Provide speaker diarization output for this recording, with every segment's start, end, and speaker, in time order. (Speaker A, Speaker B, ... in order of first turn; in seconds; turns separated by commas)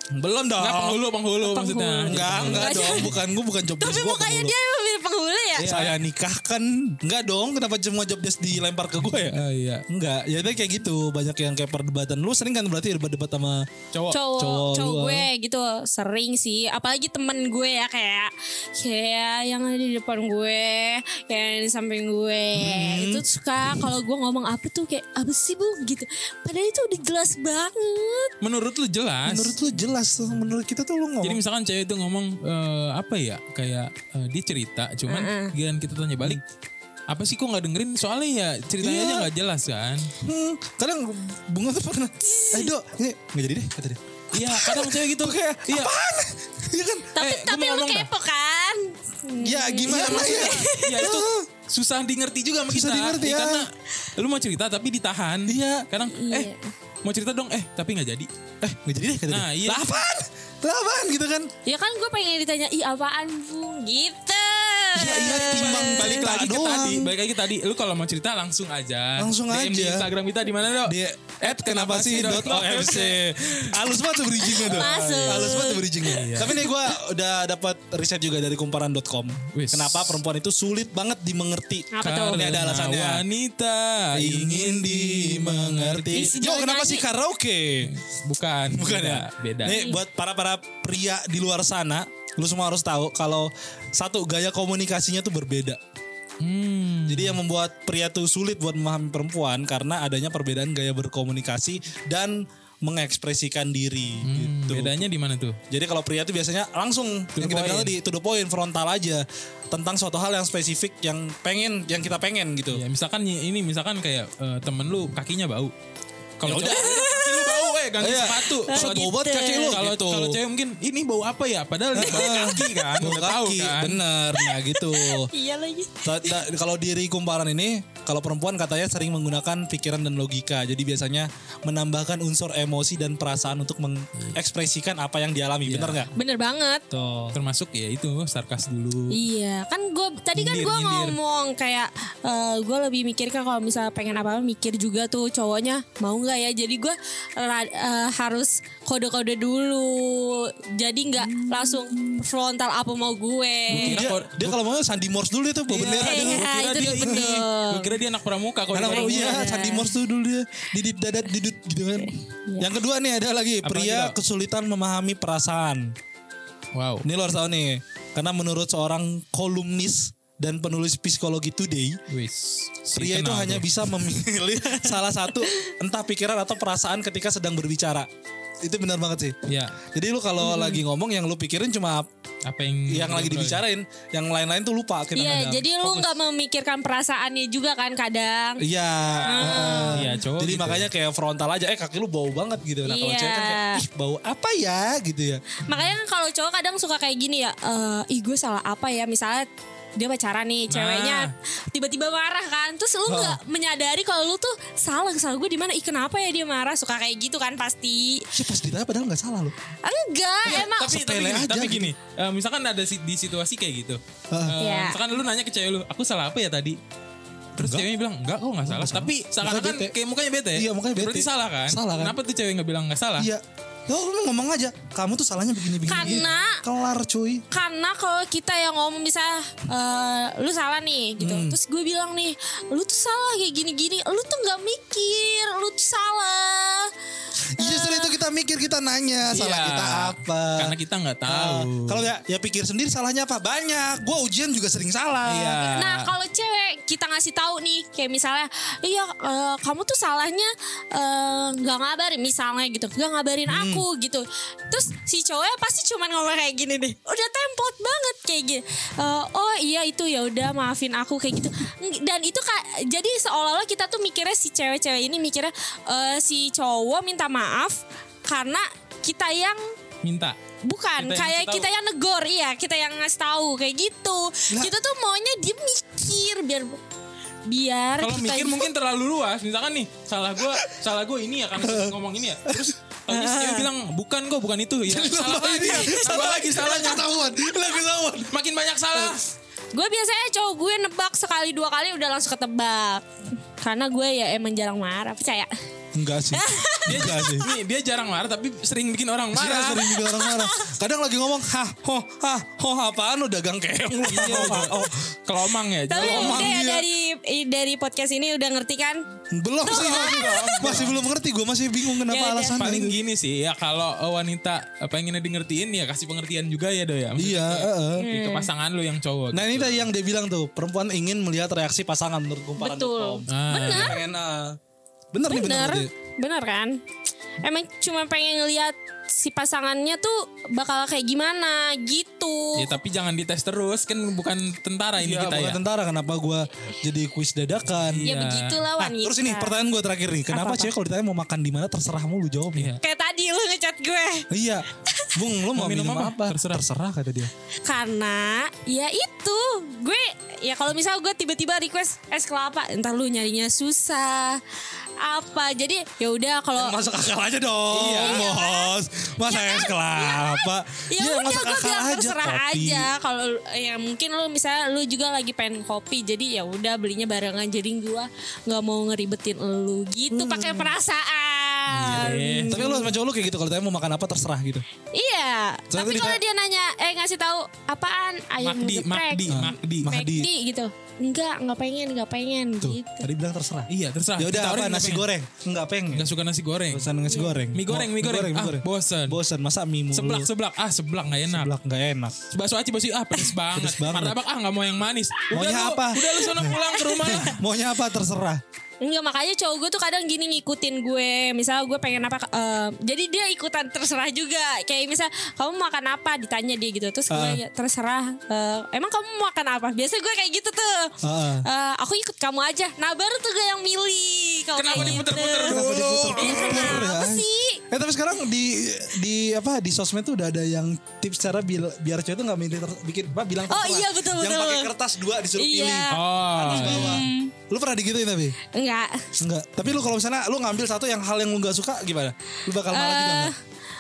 Speaker A: 0.1-1.1, Speaker B: 0.6-3.2, Speaker C: 1.4-3.1, Speaker A: 2.0-4.5, Speaker C: 3.8-5.8, Speaker A: 5.6-9.4, Speaker B: 5.6-6.0, Speaker B: 9.1-9.8, Speaker A: 9.9-13.7, Speaker B: 13.9-14.2, Speaker C: 14.1-28.3, Speaker A: 14.3-15.3, Speaker A: 22.6-23.9, Speaker B: 28.4-29.6, Speaker A: 29.2-31.4, Speaker B: 31.2-36.4, Speaker C: 35.1-35.5, Speaker B: 37.1-40.1, Speaker A: 38.8-39.3, Speaker A: 40.2-47.1, Speaker C: 42.2-42.7, Speaker B: 44.3-45.9, Speaker C: 47.1-51.1, Speaker B: 47.2-48.1, Speaker A: 49.4-51.5, Speaker B: 49.9-56.5, Speaker A: 52.7-53.6, Speaker A: 55.5-55.9, Speaker C: 56.1-56.7, Speaker B: 57.0-58.3, Speaker A: 58.6-61.5, Speaker B: 59.3-59.9, Speaker C: 61.6-66.3, Speaker A: 65.0-67.2, Speaker B: 65.0-73.2, Speaker A: 69.2-70.1, Speaker A: 70.8-83.2, Speaker C: 74.4-76.8, Speaker B: 74.5-76.6, Speaker B: 79.5-80.2, Speaker C: 81.9-82.5, Speaker B: 82.0-86.3, Speaker A: 84.1-87.9, Speaker C: 86.1-87.1, Speaker B: 87.8-89.8, Speaker A: 88.7-95.8, Speaker C: 89.7-90.0, Speaker B: 96.4-97.4, Speaker A: 97.1-105.0, Speaker B: 104.2-105.6, Speaker A: 105.7-112.8, Speaker B: 107.3-107.9, Speaker B: 112.7-115.7, Speaker B: 116.4-124.0, Speaker A: 116.4-117.0, Speaker C: 116.7-117.8, Speaker A: 118.0-120.4, Speaker C: 118.3-119.8, Speaker A: 121.9-125.3, Speaker C: 122.0-122.9, Speaker C: 124.3-126.4, Speaker A: 126.0-136.1, Speaker B: 135.7-136.1, Speaker C: 136.1-136.8, Speaker A: 136.9-137.4, Speaker B: 137.3-139.2, Speaker C: 139.1-154.1, Speaker B: 140.4-141.2, Speaker A: 151.2-152.2, Speaker B: 153.7-154.6, Speaker A: 153.7-157.4, Speaker B: 155.7-159.5, Speaker C: 156.0-158.0, Speaker A: 158.7-165.9, Speaker C: 158.9-159.9, Speaker C: 162.0-162.7, Speaker B: 163.6-164.2, Speaker B: 166.7-167.1, Speaker A: 167.0-172.0, Speaker B: 172.1-174.1, Speaker A: 172.9-178.1, Speaker C: 175.4-175.7, Speaker A: 178.6-179.4, Speaker B: 179.5-179.8, Speaker A: 179.9-182.1, Speaker C: 180.4-180.8, Speaker B: 182.5-183.6, Speaker A: 182.9-186.0, Speaker C: 185.2-188.6, Speaker A: 188.6-195.4, Speaker B: 189.1-190.9, Speaker C: 189.2-190.1, Speaker C: 192.8-193.8, Speaker C: 195.7-208.3, Speaker B: 200.7-201.3, Speaker A: 203.1-203.4, Speaker A: 208.3-209.5, Speaker C: 209.8-210.9, Speaker B: 210.4-216.8, Speaker A: 210.5-211.9, Speaker A: 214.3-214.6, Speaker C: 214.6-215.0, Speaker A: 217.6-217.9, Speaker B: 217.6-223.3, Speaker A: 218.6-219.9, Speaker A: 220.5-222.2, Speaker A: 223.2-227.4, Speaker B: 225.9-226.3, Speaker C: 225.9-226.6, Speaker C: 227.5-236.9, Speaker A: 231.2-231.6, Speaker A: 237.6-240.7, Speaker C: 237.6-238.2, Speaker B: 239.3-242.1, Speaker A: 241.3-245.7, Speaker B: 245.3-246.1, Speaker C: 245.6-269.6, Speaker A: 253.5-253.9, Speaker B: 270.0-270.4, Speaker C: 270.6-276.8, Speaker B: 271.0-271.7, Speaker C: 277.5-278.7, Speaker B: 278.0-287.1, Speaker A: 280.4-280.7, Speaker A: 281.6-282.7, Speaker C: 283.1-283.7, Speaker A: 284.9-288.4, Speaker C: 285.3-286.3, Speaker B: 288.3-289.2, Speaker A: 288.9-289.2, Speaker C: 289.7-295.5, Speaker A: 295.9-297.5, Speaker C: 296.3-297.5, Speaker B: 296.9-300.0, Speaker A: 299.3-305.2, Speaker C: 299.9-300.7, Speaker B: 304.1-306.6, Speaker C: 305.9-309.0, Speaker A: 305.9-306.9, Speaker A: 309.3-313.0, Speaker C: 309.7-310.9, Speaker B: 309.7-311.0, Speaker C: 311.9-312.7, Speaker B: 312.6-319.9, Speaker A: 317.2-318.1, Speaker C: 318.0-318.5, Speaker A: 319.3-324.6, Speaker C: 322.6-324.0, Speaker B: 323.3-324.0, Speaker A: 325.1-325.9, Speaker C: 325.3-326.8, Speaker C: 327.4-332.8, Speaker B: 332.6-335.6, Speaker A: 335.0-338.1, Speaker B: 337.9-338.6, Speaker C: 338.0-339.6, Speaker A: 338.8-342.7, Speaker C: 340.3-340.7, Speaker B: 342.6-342.8, Speaker C: 342.8-344.3, Speaker A: 344.3-347.3, Speaker C: 345.0-345.2, Speaker B: 345.6-346.7, Speaker C: 347.7-354.4, Speaker C: 355.0-356.8, Speaker A: 356.6-362.9, Speaker B: 357.7-358.3, Speaker C: 357.9-372.9, Speaker A: 370.1-370.8, Speaker B: 371.7-372.7, Speaker A: 371.9-374.6, Speaker C: 374.9-383.1, Speaker A: 375.7-376.2, Speaker B: 378.4-379.9, Speaker A: 379.3-380.3, Speaker A: 382.6-386.1, Speaker B: 383.7-385.1, Speaker B: 385.9-386.9, Speaker A: 386.7-390.3, Speaker C: 387.1-387.4, Speaker B: 387.5-389.2, Speaker B: 389.9-391.5, Speaker A: 391.3-392.2, Speaker B: 392.3-397.4, Speaker A: 393.5-394.2, Speaker A: 395.3-398.4, Speaker C: 396.1-397.3, Speaker C: 398.8-417.6, Speaker A: 407.1-407.4, Speaker A: 411.0-411.5, Speaker B: 414.6-416.8, Speaker A: 414.8-428.4, Speaker C: 423.5-424.7, Speaker C: 425.3-427.3, Speaker B: 425.9-427.1, Speaker C: 428.5-429.2, Speaker A: 429.2-433.3, Speaker C: 432.5-433.4